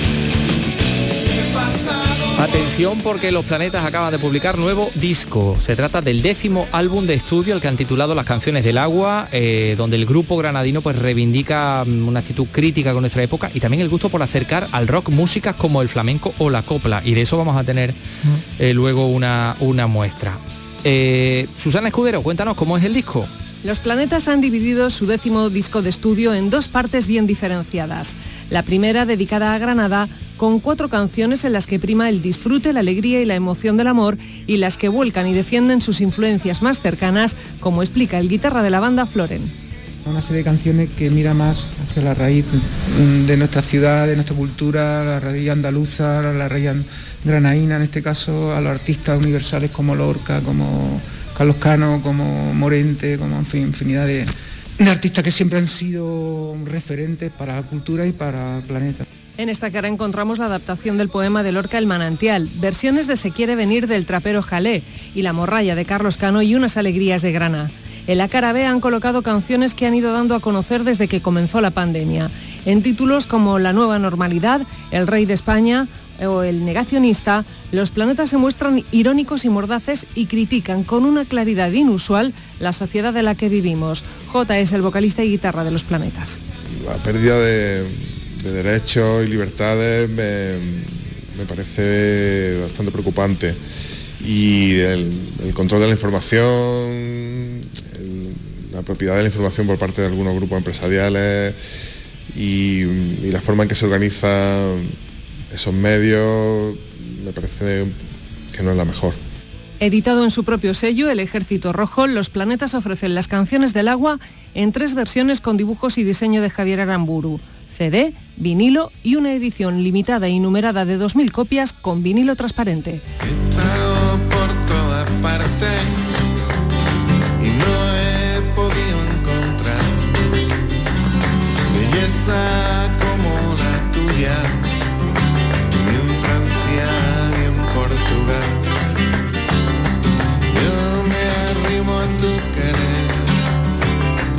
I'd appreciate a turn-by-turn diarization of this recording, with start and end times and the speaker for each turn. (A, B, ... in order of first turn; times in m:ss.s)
0:01.2-0:02.7 A
0:02.4-0:18.0 B
0:18.6-0:23.3 B
0:23.6-0:39.5 C
0:40.1-0:54.3 D
0:54.9-0:59.0 D
0:59.4-1:26.4 C
1:26.8-1:33.6 E
1:34.2-1:41.6 E
1:42.3-1:44.9 E
1:45.5-1:47.9 E
1:48.5-1:49.2 E
1:49.8-2:03.0 C
2:03.2-2:06.2 A
2:07.4-2:10.3 A
2:11.7-2:14.7 A
2:15.7-2:18.7 A
2:20.5-2:23.4 A